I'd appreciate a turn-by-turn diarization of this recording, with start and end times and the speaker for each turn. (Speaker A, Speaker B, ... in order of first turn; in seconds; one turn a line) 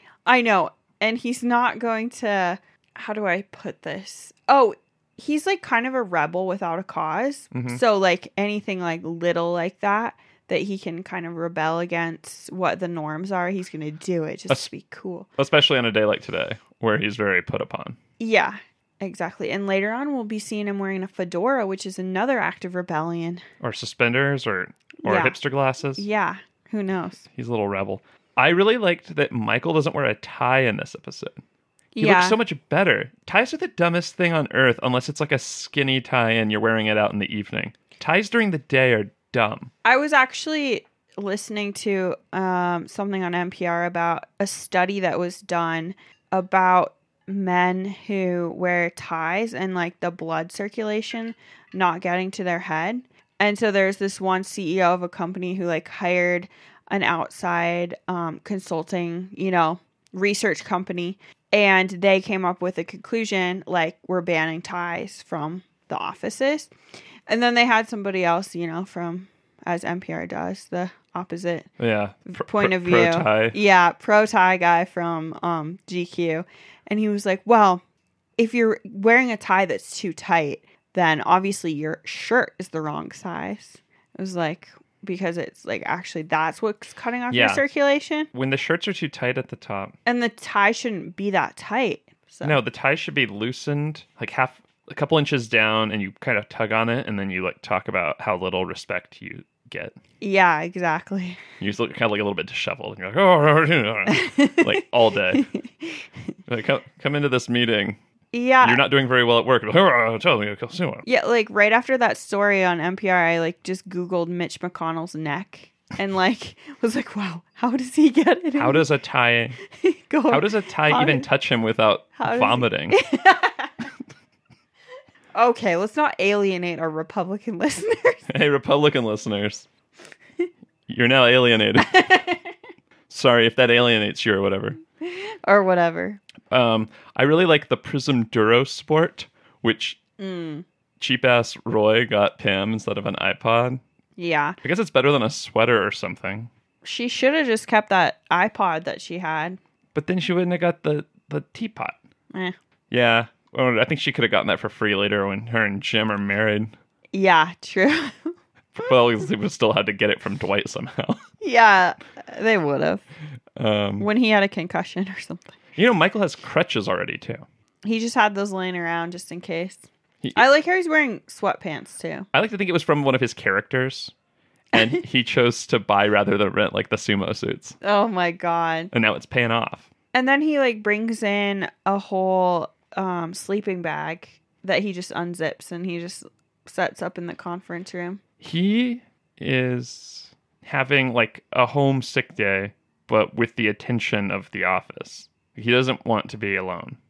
Speaker A: 0.2-15.3
Speaker B: 7.5-7.8
Speaker B: 15.4-18.0
Speaker A: 18.2-23.4
Speaker B: 23.6-26.0
Speaker A: 25.0-25.4
Speaker A: 26.0-27.2
Speaker B: 27.2-31.4
Speaker A: 31.9-32.4
Speaker B: 32.0-39.7
Speaker A: 39.8-66.7
Speaker A: 67.3-71.7
Speaker B: 71.8-73.5
Speaker A: 72.3-77.8
Speaker A: 78.4-88.3
Speaker B: 87.3-87.6
Speaker B: 88.3-89.9
Speaker A: 90.0-92.6
Speaker B: 92.4-100.0
Speaker A: 100.2-101.4
Speaker B: 101.6-105.5
Speaker A: 104.1-106.0
Speaker B: 106.5-108.0
Speaker A: 108.3-108.8
Speaker B: 108.6-111.0
Speaker A: 111.0-118.9
Speaker B: 118.6-119.6
Speaker A: 119.7-121.3
Speaker B: 120.3-123.0
Speaker A: 122.2-123.9
Speaker A: 125.3-128.2
Speaker B: 128.3-129.7
Speaker B: 130.9-132.1
Speaker A: 131.8-132.5
Speaker B: 133.1-134.8
Speaker A: 135.0-136.2
Speaker B: 136.5-140.0
Speaker A: 140.2-140.7
Speaker B: 141.0-143.8
Speaker A: 144.2-144.6
Speaker B: 144.6-146.5
Speaker A: 146.8-149.6
Speaker B: 149.9-152.0
Speaker B: 152.9-156.7
Speaker A: 157.1-158.3
Speaker B: 158.8-161.2
Speaker A: 161.4-163.0
Speaker B: 163.6-164.1
Speaker A: 164.0-165.6
Speaker B: 165.8-167.4
Speaker A: 167.8-172.3
Speaker B: 172.3-174.1
Speaker B: 174.7-177.8
Speaker A: 177.8-178.9
Speaker B: 178.9-179.9
Speaker A: 180.1-188.2
Speaker B: 188.4-197.0